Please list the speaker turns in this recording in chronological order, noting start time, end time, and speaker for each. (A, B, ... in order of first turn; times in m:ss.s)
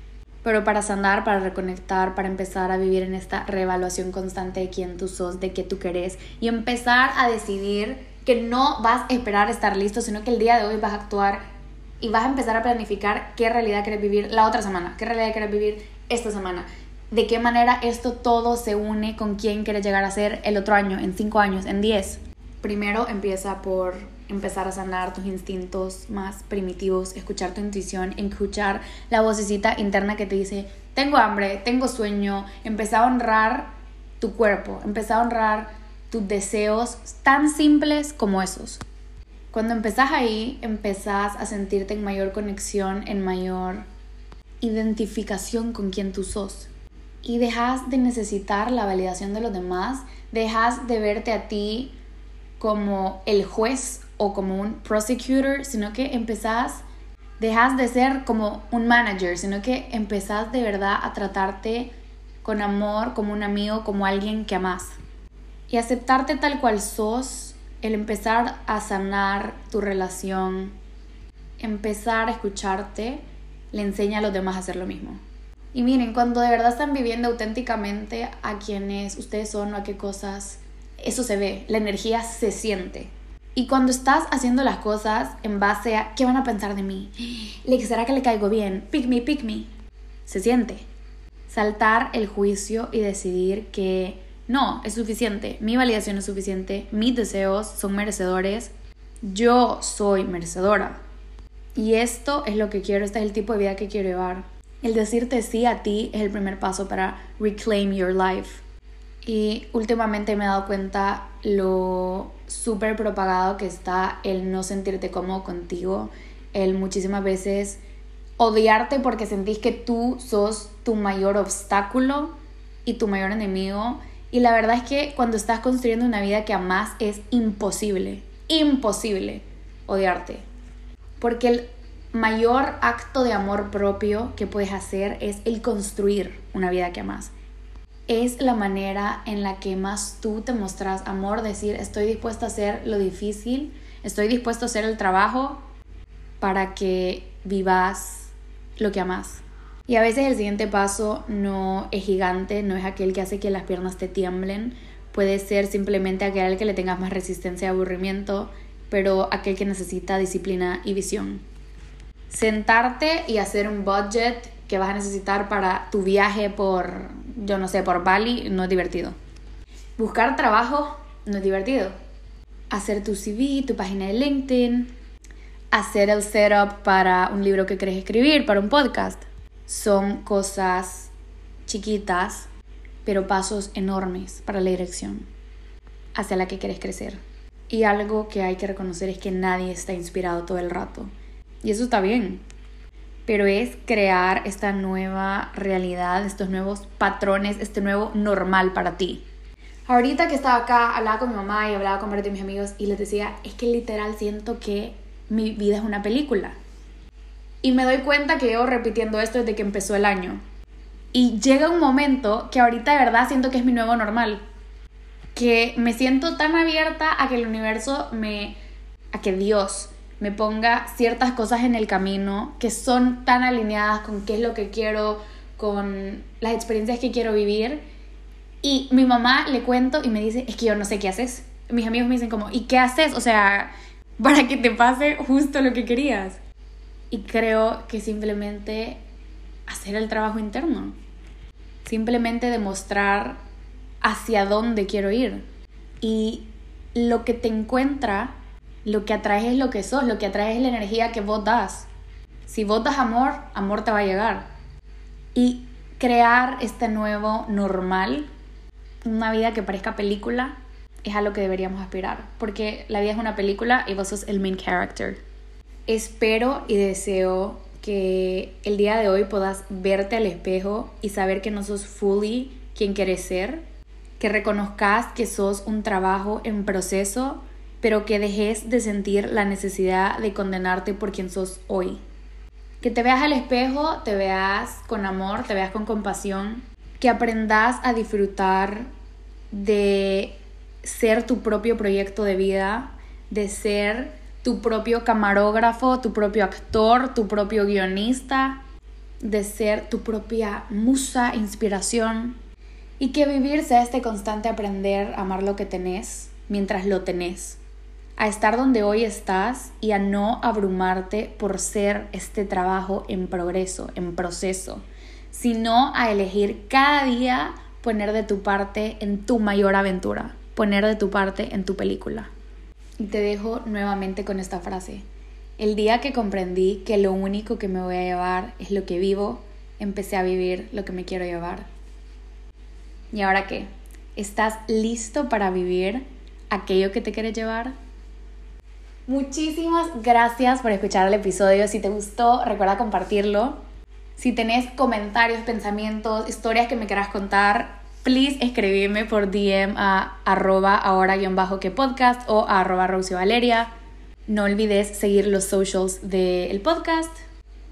0:00.4-0:11.4 A
0:12.0-0:38.8 A
0:39.5-0:43.9 A
0:44.6-0:46.7 A
0:47.2-0:51.9 A
0:52.6-0:56.8 A
0:57.4-1:01.9 A
1:02.4-1:05.0 A
1:05.7-1:10.8 A
1:11.6-1:15.2 A
1:15.7-1:29.7 A
1:30.3-1:30.9 A
1:31.5-1:38.7 A
1:39.2-1:41.0 A
1:41.8-1:48.6 A
1:49.2-1:57.8 A
1:58.4-2:10.5 A
2:11.2-2:17.3 A
2:18.1-2:25.6 A
2:26.4-2:41.4 A
2:42.3-2:49.2 A
2:50.0-2:51.9 A
2:52.7-2:54.9 A
2:55.7-3:01.1 A
3:01.6-3:02.5 A
3:03.0-3:05.3 A
3:06.1-3:11.1 A
3:11.6-3:12.4 A
3:13.3-3:19.2 A
3:19.9-3:26.6 A
3:27.6-3:30.4 A
3:31.1-3:34.4 A
3:35.4-3:38.6 A
3:39.1-3:47.8 A
3:48.6-3:56.4 A
3:57.1-3:59.0 A
3:59.7-4:01.0 A
4:01.8-4:03.4 A
4:04.0-4:05.4 A
4:06.0-4:11.9 A
4:12.5-4:14.5 A
4:15.4-4:18.3 A
4:19.0-4:25.2 A
4:25.9-4:33.6 A
4:34.2-4:42.0 A
4:42.8-4:48.9 A
4:49.5-4:58.6 A
4:59.2-5:02.4 A
5:03.0-5:07.6 A
5:08.2-5:22.3 A
5:23.0-5:25.1 A
5:25.6-5:31.7 A
5:33.1-5:37.7 A
5:39.1-5:43.6 A
5:44.2-5:53.7 A
5:54.3-5:57.2 A